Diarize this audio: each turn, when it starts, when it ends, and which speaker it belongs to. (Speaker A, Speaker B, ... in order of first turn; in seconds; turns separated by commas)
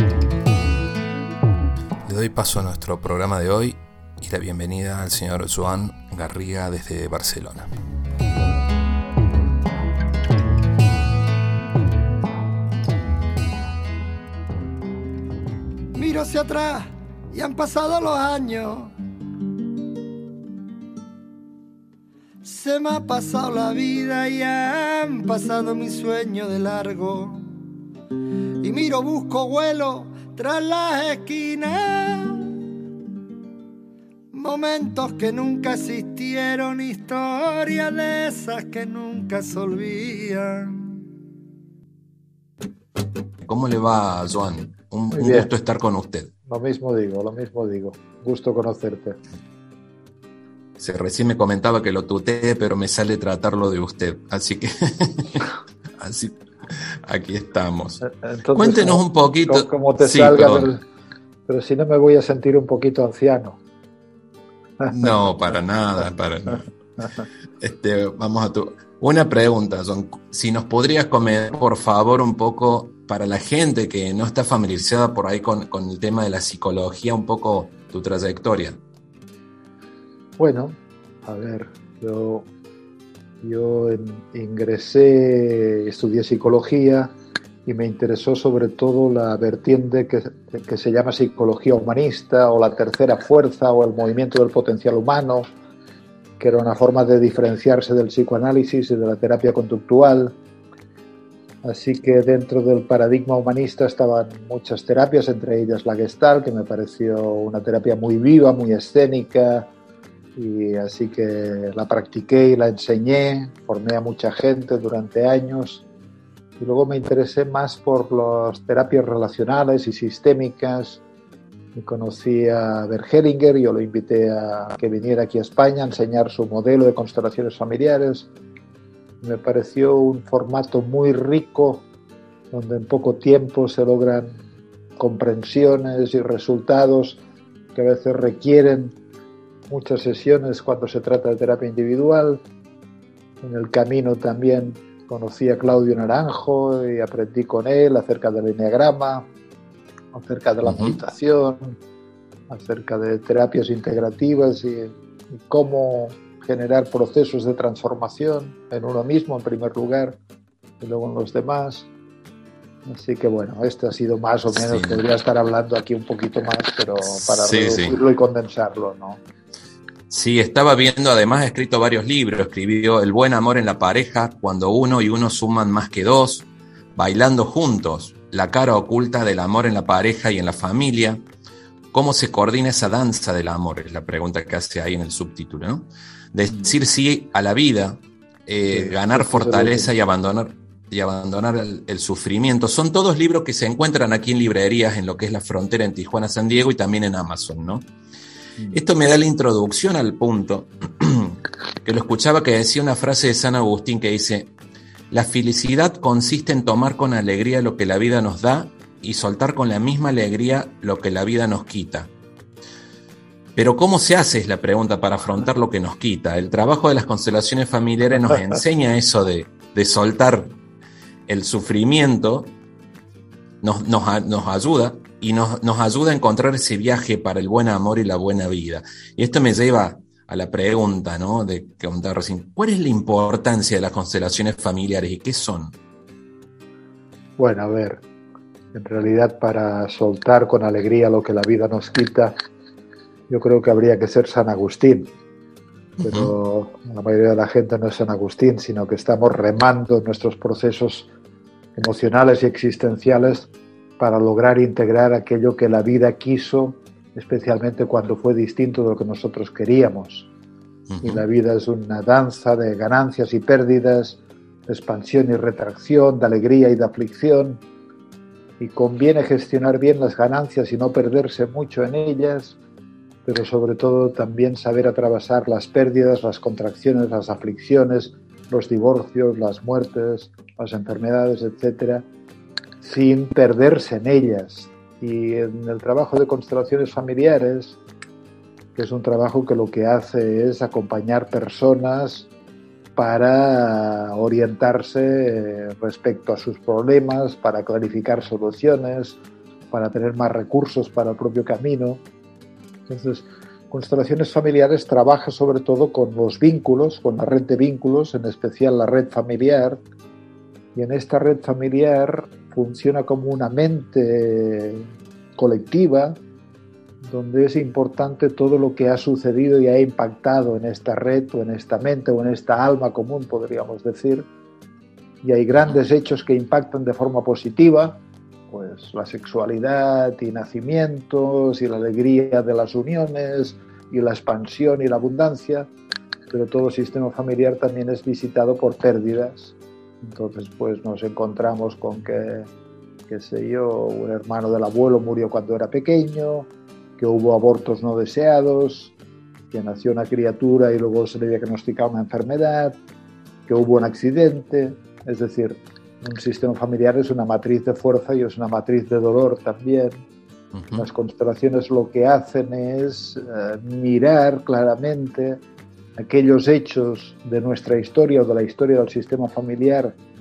Speaker A: 2.0-7.7, Speaker B: 15.9-18.9, Speaker B: 22.4-27.4, Speaker B: 28.6-32.4, Speaker B: 34.3-40.8, Speaker A: 43.4-46.3, Speaker C: 45.1-45.5, Speaker C: 46.5-49.2, Speaker A: 50.8-58.0, Speaker C: 58.0-60.8, Speaker A: 58.5-60.7, Speaker C: 61.5-63.6, Speaker C: 64.8-65.6, Speaker A: 64.9-66.7, Speaker A: 67.6-78.8, Speaker C: 80.4-82.5, Speaker C: 83.4-87.1, Speaker C: 87.7-95.5, Speaker C: 96.4-100.4, Speaker C: 101.6-109.7, Speaker C: 110.4-115.8, Speaker C: 116.6-121.0, Speaker C: 121.8-128.3, Speaker C: 129.2-131.8, Speaker C: 132.5-134.4, Speaker C: 135.0-137.2, Speaker C: 137.8-138.9, Speaker C: 139.7-142.4, Speaker C: 143.4-149.3, Speaker C: 150.1-151.8, Speaker A: 150.7-151.0, Speaker C: 152.5-160.2, Speaker C: 160.8-161.9, Speaker C: 162.9-169.2, Speaker A: 164.6-165.0, Speaker A: 167.2-168.0, Speaker A: 170.1-181.2, Speaker A: 181.9-197.9, Speaker C: 188.7-189.9, Speaker A: 198.7-204.5, Speaker A: 205.1-212.1, Speaker A: 213.6-220.6, Speaker A: 221.3-222.6, Speaker A: 223.6-235.8, Speaker C: 237.4-238.0, Speaker C: 238.7-242.4, Speaker C: 243.3-245.1, Speaker A: 246.0-246.3, Speaker C: 246.0-251.1, Speaker C: 251.8-260.3, Speaker A: 260.9-261.2, Speaker C: 261.0-267.6, Speaker C: 268.6-272.6, Speaker C: 273.3-282.1, Speaker C: 282.8-287.8, Speaker C: 288.8-292.3, Speaker C: 293.0-299.2, Speaker C: 299.7-302.0, Speaker C: 302.9-309.8, Speaker C: 310.8-316.2, Speaker C: 317.0-324.3, Speaker C: 325.2-335.7, Speaker C: 336.3-342.5, Speaker C: 343.1-348.9, Speaker C: 349.5-352.8, Speaker C: 353.5-360.0, Speaker A: 360.5-360.9, Speaker C: 360.7-365.4, Speaker C: 366.0-370.0